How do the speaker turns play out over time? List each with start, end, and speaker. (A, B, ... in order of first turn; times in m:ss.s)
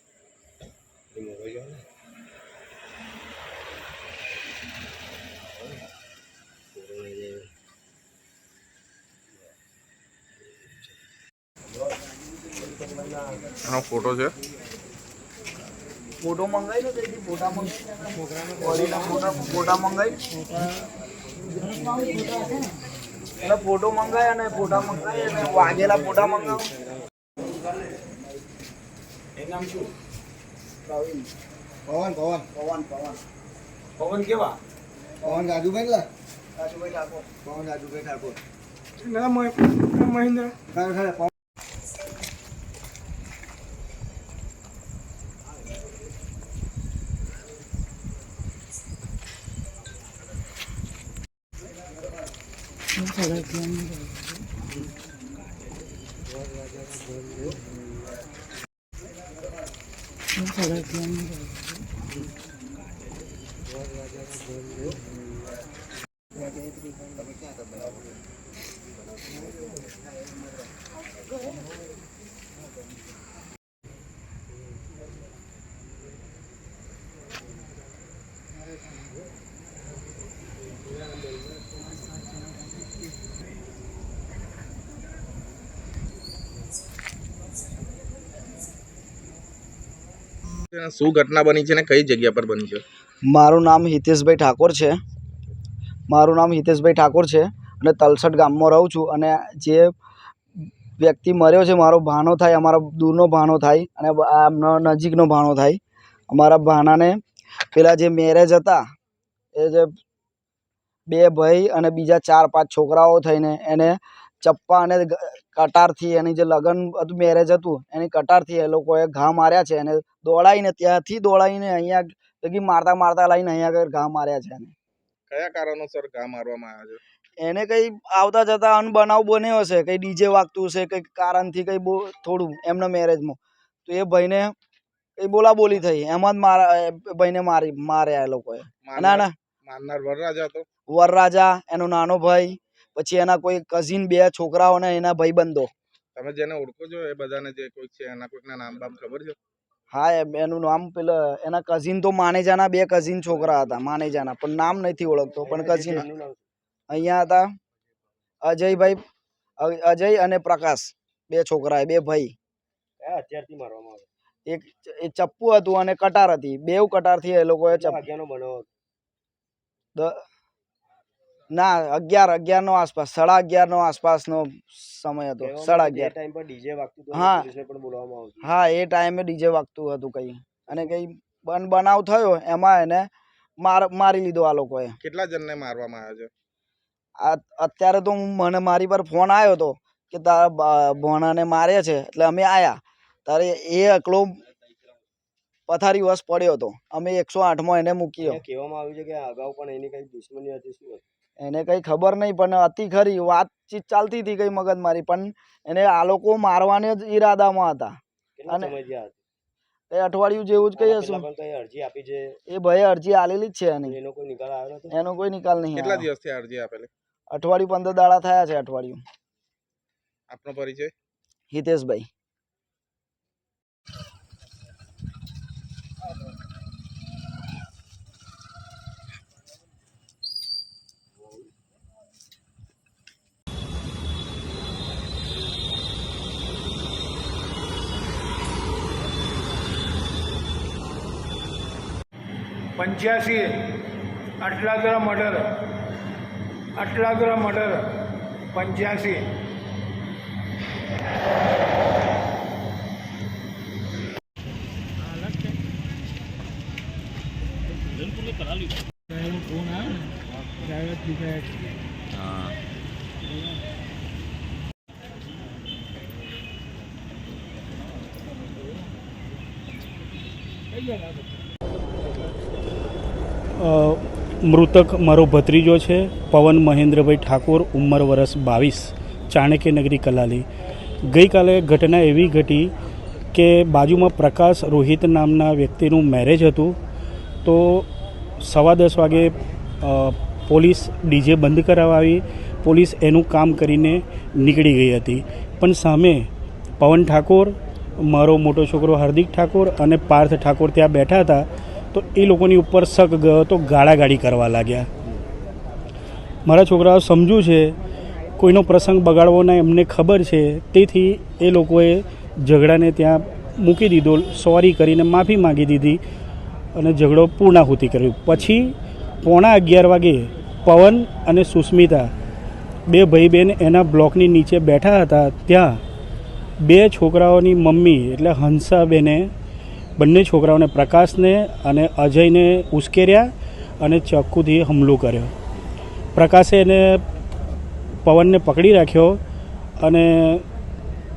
0:01.1-0:01.8 A
0:06.7-0:07.5 A
0:13.6-0:14.3 B
0:16.2-0:17.8 C
0:18.6-0:20.2 C
0:21.5-0:22.6 C
0:23.4-0:26.7 C
0:30.8-0:31.3 C
0:31.9-0:32.4 D
0:32.5-0:33.2 C
0:35.2-0:35.6 C
0:35.3-0:36.0 D
0:36.6-0:37.3 C
0:37.4-0:38.3 D
0:39.0-0:40.4 E
0:40.8-0:41.1 D
1:30.7-1:32.8 B
1:33.3-1:35.0 C
1:36.1-1:39.9 C
1:41.0-1:45.8 C
1:46.3-1:47.2 C
1:47.7-1:48.8 C
1:49.6-1:49.9 C
1:51.1-2:04.7 C
2:05.3-2:07.0 B
2:07.4-2:14.5 C
2:15.2-2:19.3 C
2:18.8-2:20.6 B
2:20.9-2:25.7 C
2:26.1-2:29.4 B
2:29.9-2:36.1 C
2:33.2-2:34.0 A
2:35.4-2:36.5 A
2:36.9-2:37.5 C
2:38.4-2:39.0 C
2:39.6-2:42.3 C
2:43.0-2:44.1 A
2:44.5-2:48.0 C
2:47.7-2:48.7 A
2:50.0-2:50.2 C
2:51.5-2:56.1 C
2:55.4-2:58.5 A
2:57.1-2:57.5 C
2:58.4-3:05.0 C
3:05.0-3:06.3 B
3:07.2-3:14.4 C
3:15.7-3:18.4 C
3:18.2-3:21.0 A
3:21.4-3:28.0 C
3:28.4-3:29.2 A
3:28.5-3:28.7 C
3:29.9-3:31.3 C
3:30.8-3:32.4 A
3:32.5-3:34.0 C
3:33.8-3:34.9 A
3:34.9-3:36.1 C
3:35.7-3:36.9 B
3:37.3-3:39.0 C
3:40.3-3:40.9 B
3:41.5-3:42.1 C
4:02.8-4:05.8 E
4:06.8-4:09.4 E
4:33.6-4:40.4 F
4:41.0-4:42.7 F
4:43.3-4:46.8 F
4:47.4-4:47.9 F
4:48.4-4:56.3 F
4:56.8-5:04.9 F
5:06.4-5:07.7 F
5:08.4-5:16.0 F
5:16.7-5:22.1 F
5:22.9-5:25.8 F
5:26.6-5:29.3 F
5:30.0-5:35.3 F
5:36.1-5:37.0 F
5:38.0-5:39.2 F
5:39.8-5:40.4 F